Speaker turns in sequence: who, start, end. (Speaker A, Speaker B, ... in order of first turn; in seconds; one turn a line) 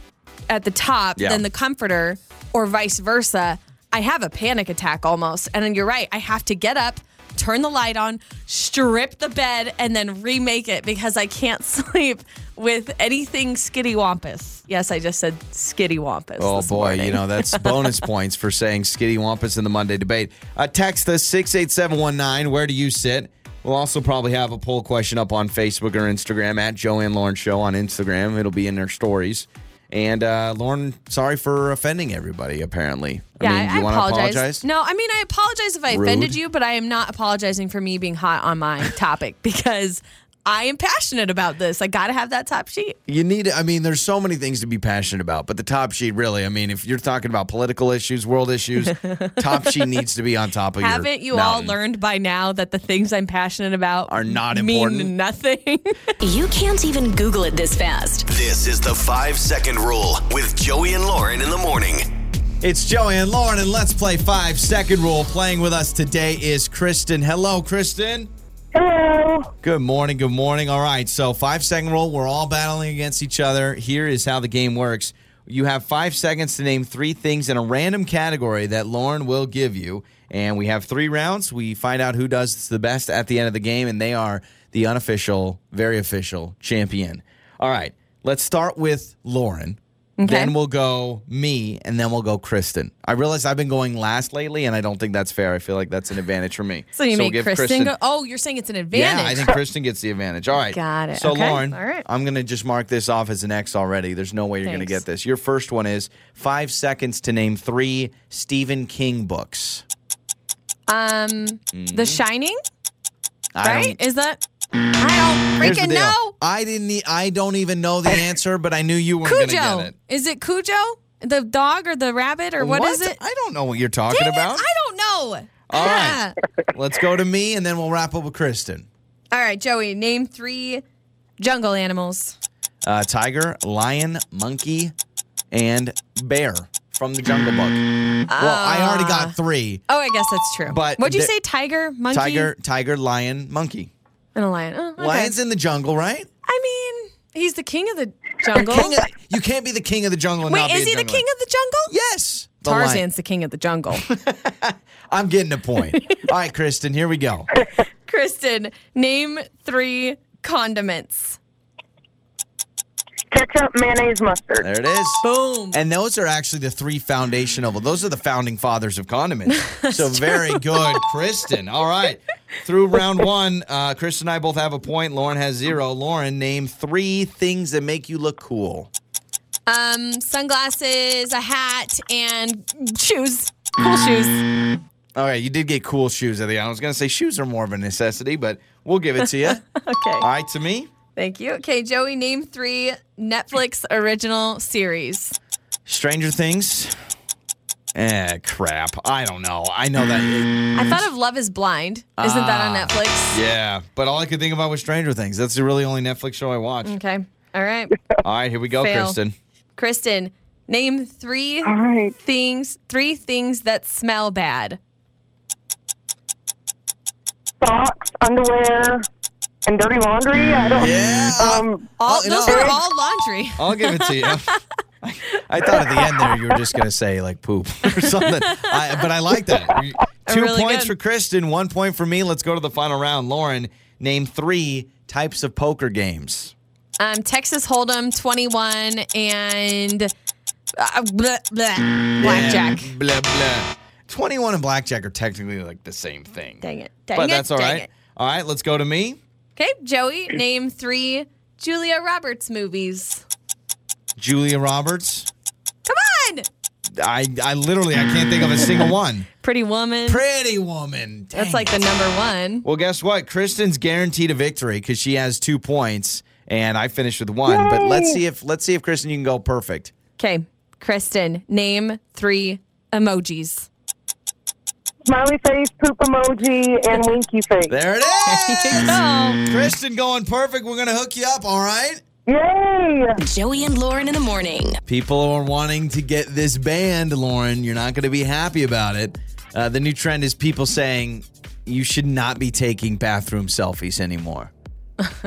Speaker A: 0.5-17.9
Speaker B: 1.2-1.4
Speaker B: 16.4-34.6
Speaker A: 33.4-43.0
Speaker B: 35.9-36.4
Speaker B: 43.1-51.7
Speaker A: 48.9-49.9
Speaker A: 50.8-55.9
Speaker B: 54.1-55.1
Speaker C: 56.2-58.3
Speaker D: 58.2-62.1
Speaker B: 62.6-68.3
Speaker E: 68.7-69.5
Speaker B: 69.6-97.9
Speaker A: 90.2-90.5
Speaker A: 96.9-99.6
Speaker B: 98.9-109.8
Speaker A: 100.7-102.0
Speaker A: 104.6-105.0
Speaker A: 110.9-112.6
Speaker B: 111.7-112.2
Speaker B: 113.5-114.0
Speaker A: 113.6-114.4
Speaker A: 115.0-116.3
Speaker B: 115.6-119.9
Speaker A: 119.2-123.2
Speaker B: 122.6-124.6
Speaker A: 124.1-126.4
Speaker B: 125.7-126.2
Speaker B: 126.7-128.8
Speaker A: 129.3-130.8
Speaker A: 131.4-132.3
Speaker B: 132.8-134.9
Speaker B: 135.5-139.8
Speaker A: 138.3-139.3
Speaker A: 139.9-142.5
Speaker B: 140.7-141.3
Speaker B: 142.1-143.9
Speaker A: 144.3-145.3
Speaker B: 145.0-146.3
Speaker A: 146.4-149.0
Speaker B: 148.5-151.2
Speaker A: 150.5-151.9
Speaker B: 151.9-153.0
Speaker A: 152.6-154.0
Speaker B: 154.0-157.5
Speaker A: 158.1-161.4
Speaker E: 163.3-164.7
Speaker B: 164.6-178.9
Speaker A: 165.2-165.8
Speaker A: 169.5-170.6
Speaker A: 179.7-184.5
Speaker B: 185.1-189.6
Speaker A: 189.2-190.3
Speaker B: 190.2-190.9
Speaker A: 191.2-195.3
Speaker B: 195.8-196.9
Speaker B: 197.9-201.0
Speaker A: 200.8-203.4
Speaker B: 202.2-206.9
Speaker A: 206.8-207.9
Speaker B: 208.2-209.3
Speaker A: 208.8-209.2
Speaker A: 209.8-214.8
Speaker E: 211.6-212.1
Speaker E: 217.6-219.1
Speaker E: 219.7-221.9
Speaker B: 220.8-222.8
Speaker A: 222.0-224.6
Speaker E: 222.4-222.7
Speaker B: 223.6-236.5
Speaker A: 225.7-226.1
Speaker A: 228.0-228.8
Speaker A: 230.3-230.9
Speaker A: 237.0-240.1
Speaker A: 240.8-242.9
Speaker B: 242.2-249.2
Speaker A: 246.6-247.9
Speaker A: 249.6-253.2
Speaker B: 254.2-255.3
Speaker A: 255.8-256.5
Speaker B: 257.0-259.3
Speaker A: 259.4-260.2
Speaker B: 260.1-261.7
Speaker A: 261.3-262.6
Speaker B: 262.6-269.9
Speaker E: 267.5-268.2
Speaker A: 270.2-273.7
Speaker E: 275.1-277.8
Speaker B: 277.7-282.0
Speaker A: 278.2-279.4
Speaker E: 282.3-283.2
Speaker C: 283.2-284.8
Speaker B: 284.9-294.5